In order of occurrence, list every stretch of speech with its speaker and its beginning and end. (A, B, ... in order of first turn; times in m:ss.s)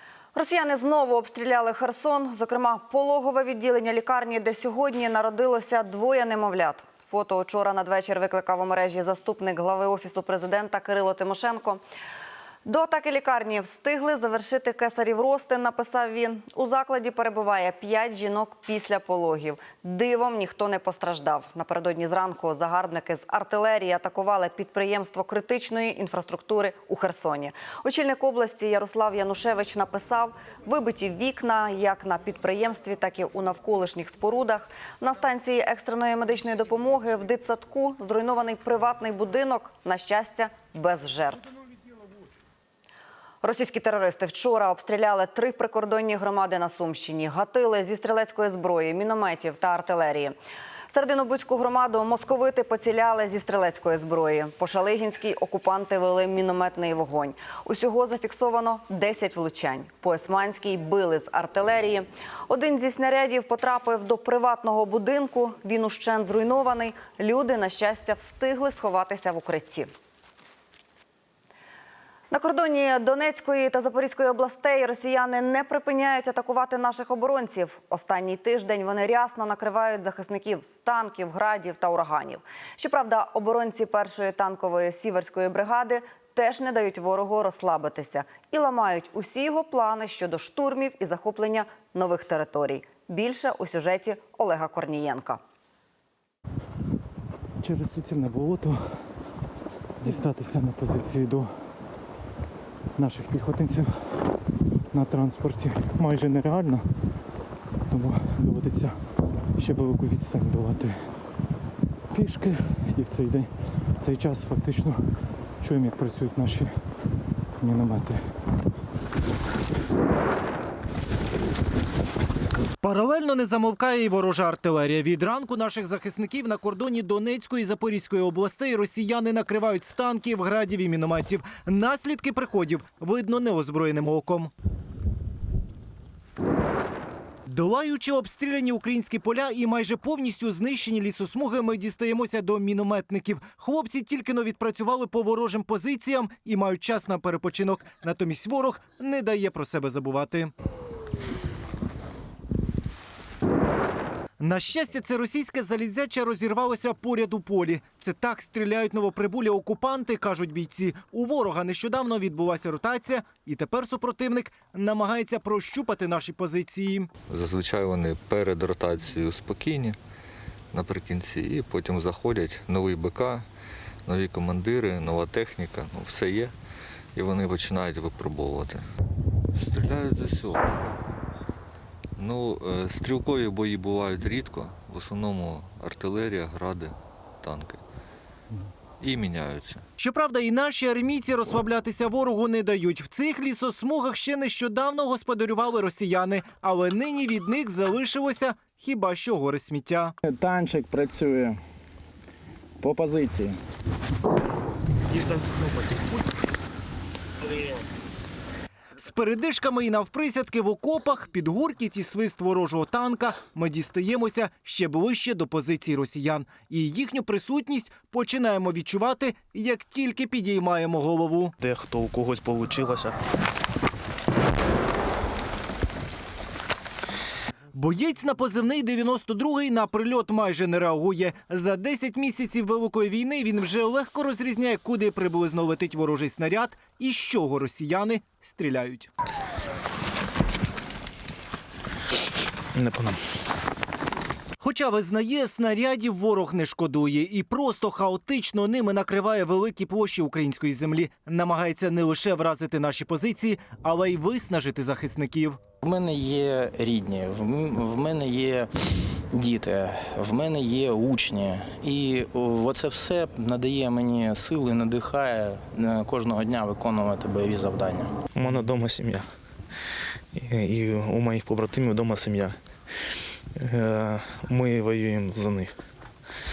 0:00.4-0:11.8 A
0:12.6-0:41.5 A
0:43.4-0:50.4 A
0:50.9-1:09.9 A
1:12.3-1:35.4 A
1:37.6-1:38.8 B
1:40.0-1:41.5 B
1:43.0-1:43.9 B
1:45.0-1:46.8 B
1:47.9-1:48.9 B
1:49.6-1:51.0 B
1:52.1-1:53.5 B
1:54.0-1:55.0 B
1:55.6-1:56.7 B
1:57.6-1:58.2 B
2:02.8-2:14.5 C
2:17.5-2:30.5 C
2:34.4-2:47.1 C
2:47.3-2:50.0 D
2:50.7-2:53.5 D
2:54.1-2:56.6 D
2:57.2-2:58.9 D
2:59.5-3:00.7 D
3:02.2-3:07.8 D
3:09.0-3:09.8 D
3:10.0-3:20.2 C
3:20.3-3:21.6 E
3:22.8-3:23.5 E
3:29.0-3:41.5 C
3:41.6-3:43.2 F
3:47.8-3:59.1 C
4:02.8-4:03.2 F
4:04.6-4:15.6 C
4:15.8-4:18.7 E
4:19.3-4:28.2 E
4:28.3-4:29.3 F
4:30.3-4:32.6 F
4:33.6-4:35.8 F